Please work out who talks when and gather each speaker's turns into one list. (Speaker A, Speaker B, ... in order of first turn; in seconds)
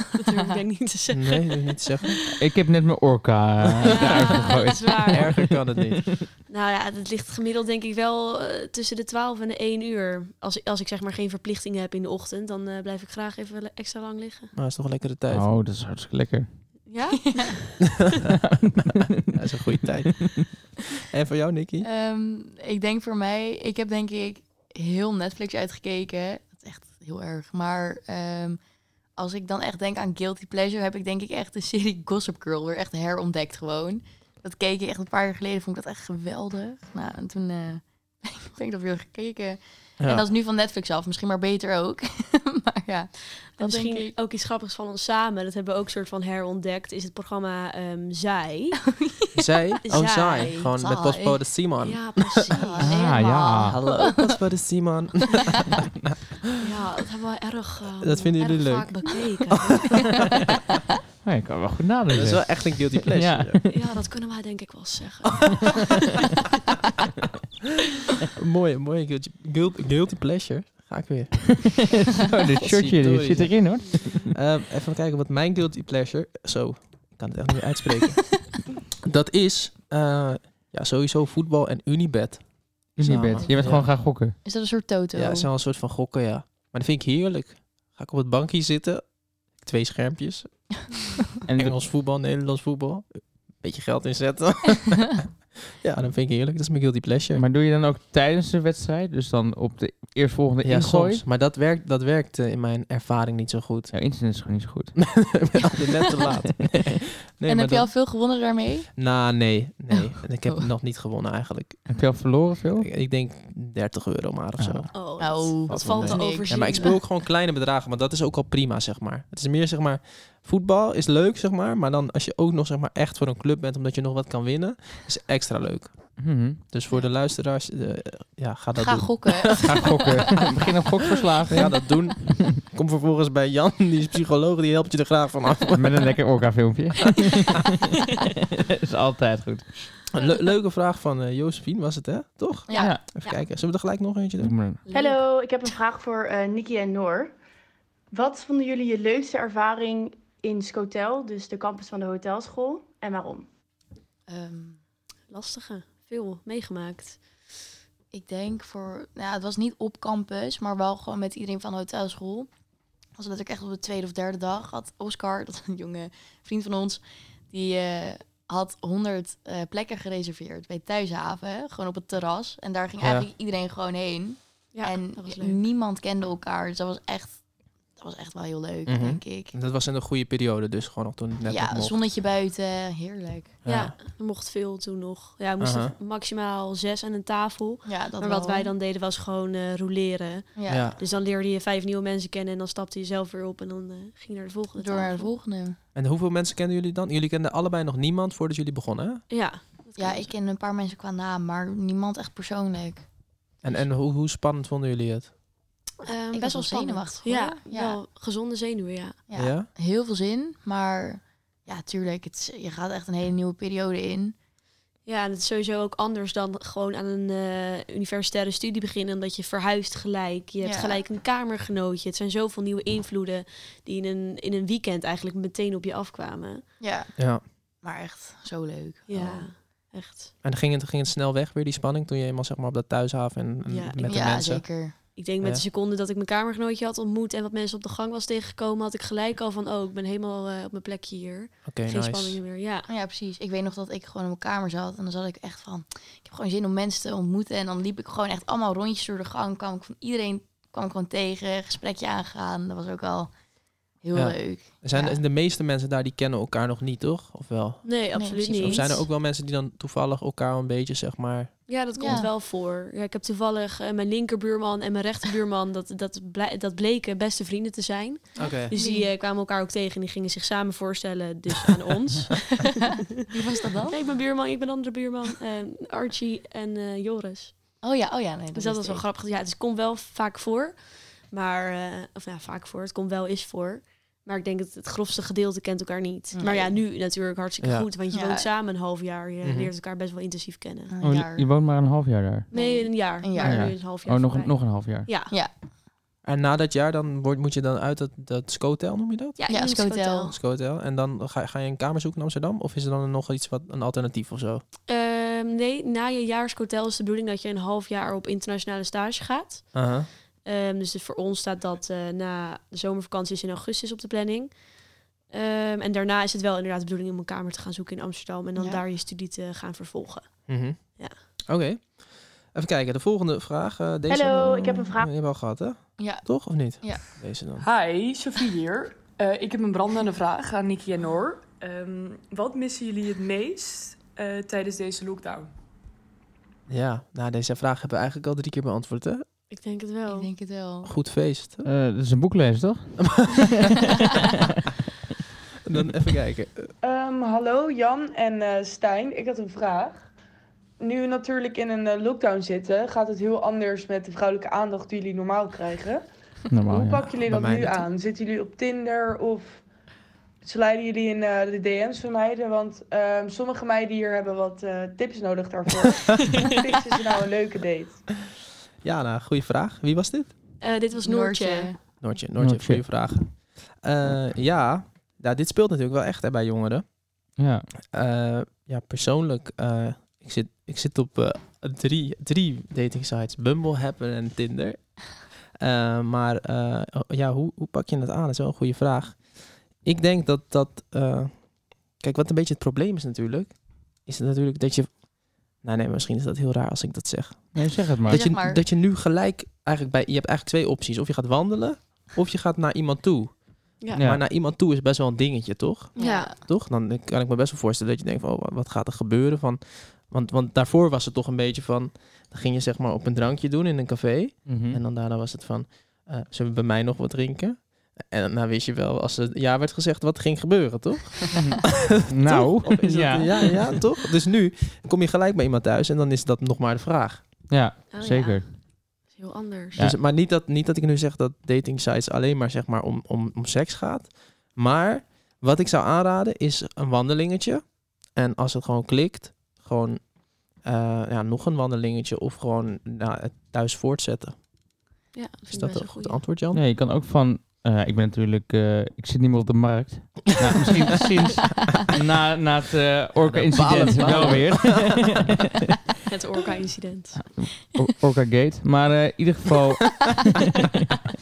Speaker A: 0.2-2.3, 3.9-5.3, 6.5-14.5, 16.9-17.8, 43.6-48.8, 49.9-50.6, 51.8-53.2, 56.6-60.2, 63.7-66.1, 114.9-117.0, 142.8-143.3, 144.9-145.2, 155.3-157.3, 174.7-175.6, 183.7-195.3, 199.3-200.3, 206.0-209.2, 215.1-226.7, 229.1-230.3, 233.7-234.5, 235.1-242.9, 257.8-259.0, 261.7-272.8, 273.9-277.8, 278.5-290.9, 292.5-295.3, 299.4-300.4, 304.9-309.9, 310.4-314.6, 315.3-321.2, 339.5-340.3, 370.6-371.7, 406.0-406.3, 427.9-429.8, 445.1-446.2, 456.1-457.2
Speaker B: 1.1-2.2, 5.1-6.2, 14.5-15.5, 19.3-21.9, 40.0-40.2, 49.4-52.2, 53.7-55.8, 58.0-58.9, 59.8-60.1, 62.1-63.6, 68.4-78.5, 79.0-83.9, 85.2-90.8, 91.5-97.5, 100.6-103.9, 105.0-107.9, 109.0-112.0, 112.8-114.9, 115.7-129.7, 131.5-136.2, 140.1-144.6, 173.0-173.3, 178.9-182.0, 183.6-183.9, 185.6-185.9, 190.7-191.0, 195.9-199.2, 203.6-205.3, 209.3-209.7, 227.2-227.4, 230.4-234.8, 241.7-242.4, 254.1-262.3, 268.4-268.7, 287.6-287.9, 289.4-289.7, 296.2-299.4, 300.3-304.6, 309.7-310.1, 320.5-327.7, 336.7-339.2, 340.8-341.7, 343.1-343.5, 345.6-346.7, 357.3-357.9, 368.8-370.3, 372.0-376.9, 377.9-427.3, 429.8-444.4, 445.5-446.6, 453.2-455.3
Speaker C: 2.4-5.5, 15.3-16.8, 18.6-19.3, 52.8-53.8, 61.2-63.7, 71.6-74.3, 83.0-84.4, 91.5-91.8, 97.3-101.2, 103.9-105.3, 111.9-112.9, 114.6-114.9, 126.2-126.6, 129.7-132.6, 135.7-139.9, 142.7-143.0, 144.4-144.8, 291.0-292.5, 293.4-295.1, 341.6-344.3, 356.5-357.2, 372.4-372.9, 377.4-377.7, 397.5-398.2, 404.0-404.2, 414.5-414.8, 421.3-423.7, 427.5-428.5, 446.5-455.3, 457.2-460.7
Speaker D: 21.8-28.6, 29.1-44.1, 49.0-49.5, 50.4-51.4, 52.5-54.3, 83.1-83.5, 84.5-85.5, 107.5-108.9, 115.2-116.9, 128.8-130.5, 142.7-143.3, 154.3-154.8, 158.1-162.5, 163.2-177.4, 178.0-179.6, 181.5-183.6, 187.8-188.7, 190.6-190.9, 194.8-195.8, 200.0-203.1, 206.3-208.0, 209.3-214.4, 220.6-221.0, 226.8-229.5, 234.1-235.0, 242.9-253.3, 254.0-255.2, 258.1-259.1, 262.0-262.3, 268.4-269.1, 273.2-274.0, 277.8-279.0, 286.4-286.8, 288.1-288.5, 290.9-291.5, 292.5-293.7, 299.5-300.3, 318.6-318.8, 326.0-327.0, 340.1-340.9, 371.0-371.8, 398.1-398.6, 406.0-406.4
Speaker E: 144.9-147.3, 148.1-153.5, 324.1-325.1
Speaker F: 327.6-335.5
Speaker G: 346.8-350.1, 350.8-356.0, 356.7-359.6, 360.4-368.1